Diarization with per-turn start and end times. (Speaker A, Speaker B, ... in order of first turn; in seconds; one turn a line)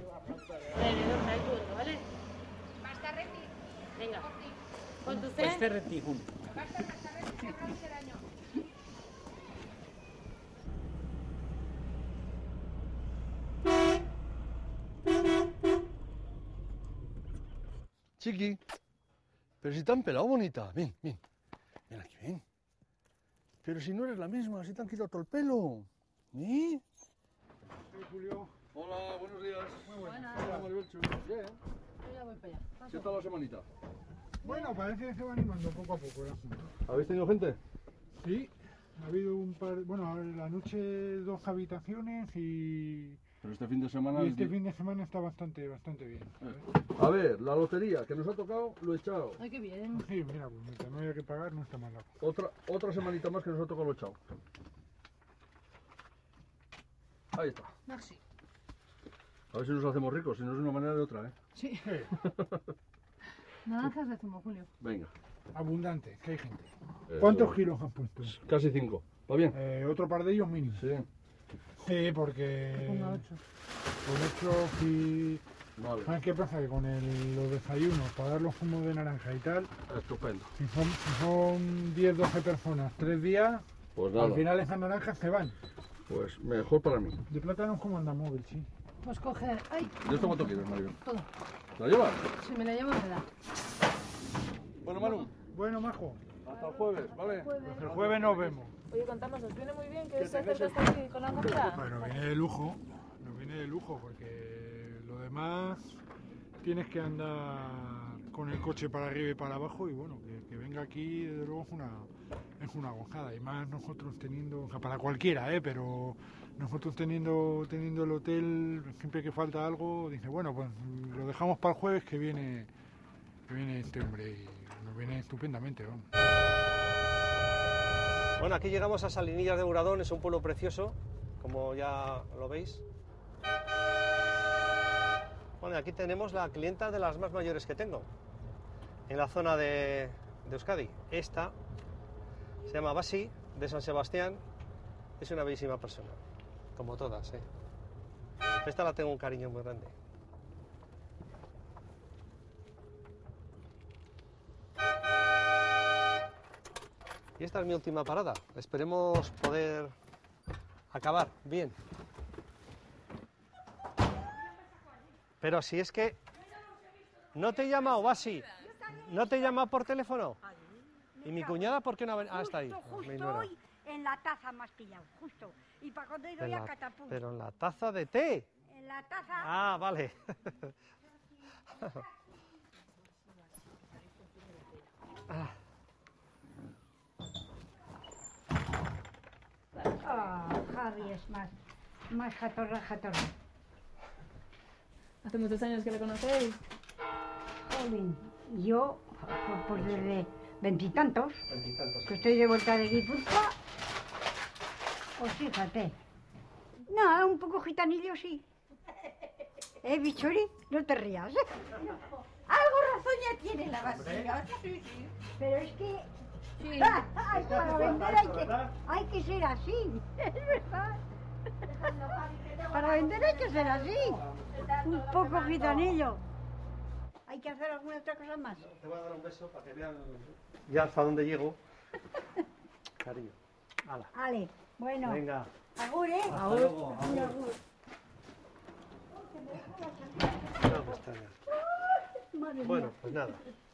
Speaker A: 0.7-2.1
Speaker A: 4.0-4.4
Speaker A: 5.0-5.8
Speaker B: 18.2-18.6
Speaker B: 19.6-21.2
Speaker B: 21.9-22.4
Speaker B: 23.6-26.8
Speaker C: 27.9-28.5
Speaker B: 28.7-31.6
Speaker C: 29.9-30.7
Speaker D: 32.1-32.8
Speaker B: 32.8-33.7
Speaker C: 34.4-36.7
Speaker B: 36.9-37.6
Speaker C: 38.2-43.2
Speaker B: 43.4-44.5
Speaker C: 44.1-46.6
Speaker B: 46.4-49.4
Speaker D: 49.4-50.0
Speaker C: 49.9-52.1
Speaker B: 52.2-54.2
Speaker B: 57.3-57.7
Speaker D: 57.9-58.2
Speaker B: 59.5-61.3
Speaker D: 61.5-62.1
Speaker B: 62.1-62.6
Speaker D: 63.7-64.7
Speaker B: 64.8-65.1
Speaker C: 65.5-68.4
Speaker B: 67.1-67.6
Speaker B: 68.2-69.6
Speaker C: 69.5-70.8
Speaker B: 70.8-71.1
Speaker C: 71.8-73.3
Speaker D: 72.9-73.2
Speaker C: 74.0-75.4
Speaker B: 75.8-76.1
Speaker C: 76.0-79.7
Speaker B: 79.9-80.5
Speaker C: 80.6-83.6
Speaker B: 84.0-84.5
Speaker C: 84.2-85.6
Speaker B: 86.1-87.2
Speaker C: 87.3-88.7
Speaker D: 89.0-90.5
Speaker B: 90.0-91.0
Speaker B: 91.8-92.3
Speaker D: 92.4-93.2
Speaker B: 94.8-95.3
Speaker C: 95.4-96.2
Speaker B: 96.5-98.6
Speaker E: 97.0-97.3
Speaker C: 97.6-98.7
Speaker E: 98.9-102.1
Speaker B: 100.2-100.7
Speaker C: 101.5-105.8
Speaker C: 106.6-122.7
Speaker C: 123.5-126.1
Speaker F: 128.4-132.8
Speaker F: 135.6-138.1
Speaker F: 139.1-141.6
Speaker F: 142.7-144.4
Speaker F: 145.2-146.2
Speaker F: 146.8-147.4
Speaker F: 148.6-149.9
Speaker F: 157.4-159.9
Speaker F: 160.9-161.8
Speaker F: 165.4-166.2
Speaker F: 167.3-170.4
Speaker G: 168.6-169.3
Speaker G: 171.2-171.7
Speaker F: 171.2-173.5
Speaker G: 172.3-177.2
Speaker F: 176.4-178.5
Speaker G: 178.7-179.6
Speaker F: 179.4-180.7
Speaker F: 185.3-185.5
Speaker G: 190.0-191.5
Speaker G: 192.1-193.3
Speaker E: 195.2-196.6
Speaker G: 197.7-201.4
Speaker F: 199.8-200.1
Speaker F: 201.5-202.3
Speaker G: 202.1-203.6
Speaker G: 205.2-205.9
Speaker G: 206.9-208.4
Speaker G: 209.8-216.1
Speaker F: 213.9-214.4
Speaker G: 216.6-221.1
Speaker F: 217.2-218.8
Speaker G: 221.6-226.2
Speaker F: 224.2-224.5
Speaker G: 227.3-228.6
Speaker F: 228.6-231.6
Speaker F: 233.0-234.1
Speaker G: 234.1-235.2
Speaker F: 235.0-235.5
Speaker G: 235.8-237.6
Speaker F: 236.3-237.4
Speaker G: 239.2-240.9
Speaker F: 240.6-241.4
Speaker G: 241.5-243.4
Speaker F: 242.6-243.4